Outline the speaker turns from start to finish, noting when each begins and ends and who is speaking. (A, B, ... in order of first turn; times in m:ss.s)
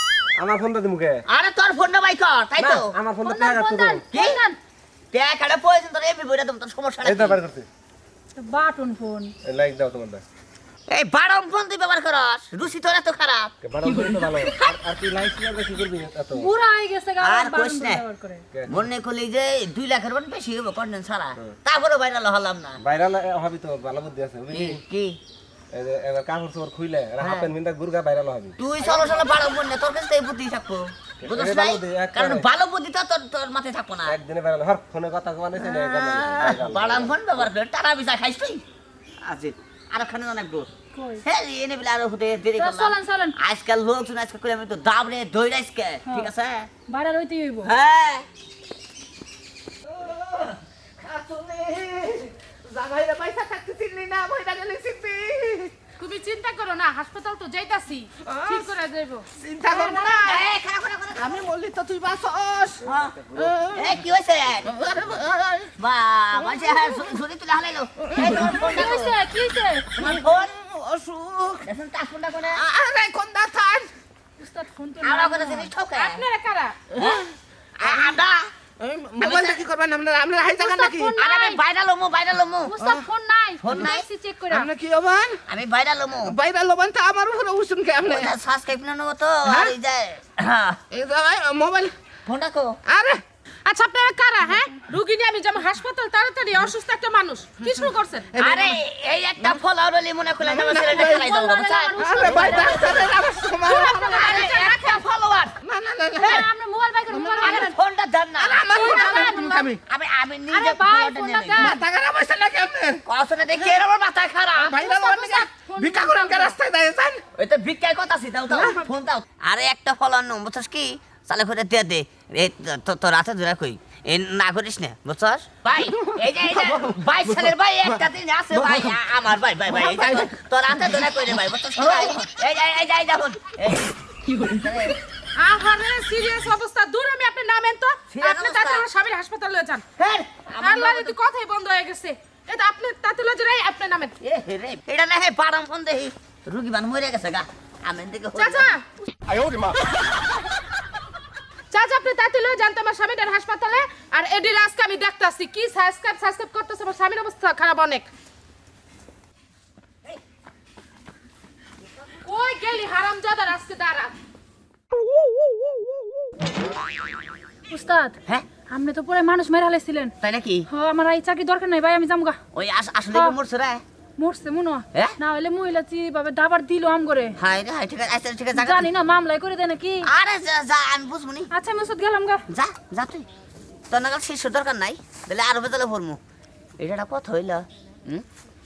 0:00.3-0:01.2 A
0:01.3-0:03.0 B
0:02.6-0:04.0 A
0:03.2-0:04.6 C
0:04.1-0:04.4 B
0:05.1-0:07.4 B
0:07.0-0:07.7 A
0:08.4-0:09.3 C
0:09.4-0:10.2 A
0:10.9-0:13.5 B
0:13.6-0:16.5 A
0:16.4-0:18.4 C
0:17.2-0:18.0 B
0:18.5-0:18.8 A
0:18.7-0:22.8 B
0:22.8-0:24.8 A
0:24.5-0:25.2 B
0:25.7-0:28.6 A
0:27.2-0:27.5 B
0:28.6-0:34.1 B
0:31.2-0:32.4 A
0:34.1-0:37.3 A
0:35.6-0:38.6 B
0:39.2-0:40.7 B
0:40.9-0:41.2 C
0:41.2-0:46.7 B
0:42.5-0:43.3 C
0:46.0-0:46.3 C
0:46.9-0:47.7 C
0:47.6-0:48.3 B
0:51.0-0:52.2 B
0:52.7-0:55.7 D
0:56.0-0:59.2 E
0:58.2-0:58.7 D
0:59.4-1:00.4 D
0:59.8-1:00.2 C
1:00.2-1:01.4 B
1:01.2-1:02.8 D
1:02.8-1:03.2 B
1:03.3-1:03.9 D
1:03.7-1:04.8 B
1:04.7-1:05.7 D
1:05.8-1:09.2 B
1:06.4-1:06.9 D
1:08.0-1:08.8 D
1:08.2-1:09.9 C
1:09.9-1:10.6 B
1:10.1-1:11.6 D
1:11.6-1:12.6 B
1:12.6-1:13.9 D
1:14.4-1:15.7 C
1:15.0-1:16.2 B
1:15.9-1:16.8 E
1:16.9-1:18.5 B
1:16.9-1:17.3 D
1:18.8-1:21.2 D
1:19.2-1:19.6 B
1:20.5-1:21.6 C
1:21.1-1:22.8 B
1:22.7-1:24.7 C
1:22.8-1:23.1 D
1:23.6-1:24.1 B
1:24.5-1:25.4 D
1:25.4-1:26.4 B
1:26.2-1:28.3 D
1:28.0-1:30.8 B
1:29.4-1:29.7 D
1:30.9-1:31.9 D
1:32.2-1:32.8 B
1:32.9-1:33.2 D
1:33.7-1:38.3 E
1:38.4-1:42.7 B
1:38.4-1:38.8 D
1:40.4-1:41.2 D
1:41.1-1:43.2 C
1:42.0-1:44.3 D
1:42.2-1:45.0 E
1:44.0-1:45.5 B
1:45.6-1:46.5 D
1:46.2-1:47.7 C
1:47.1-1:47.7 D
1:47.3-1:48.7 B
1:48.4-1:49.8 D
1:48.7-1:49.6 E
1:48.7-1:49.7 C
1:49.8-1:51.8 B
1:50.5-1:51.8 C
1:51.6-1:53.0 D
1:53.0-1:54.8 B
1:54.6-1:57.2 D
1:54.8-1:56.4 C
1:57.3-2:15.0 B
1:58.5-1:58.8 D
2:09.8-2:10.3 D
2:15.4-2:19.8 E
2:18.1-2:18.8 B
2:20.0-2:21.1 B
2:20.6-2:24.2 E
2:24.2-2:28.7 B
2:28.4-2:28.8 E
2:31.7-2:38.1 E
2:42.2-2:44.1 E
2:47.7-2:50.1 C
2:50.2-2:50.7 B
2:50.7-2:52.4 C
2:52.5-2:53.8 B
2:53.1-2:53.4 C
2:54.2-2:57.4 C
2:57.4-2:58.9 B
2:58.5-3:00.1 C
3:00.0-3:01.5 B
3:01.6-3:02.4 C
3:02.5-3:03.3 B
3:03.9-3:06.2 B
3:06.8-3:08.2 B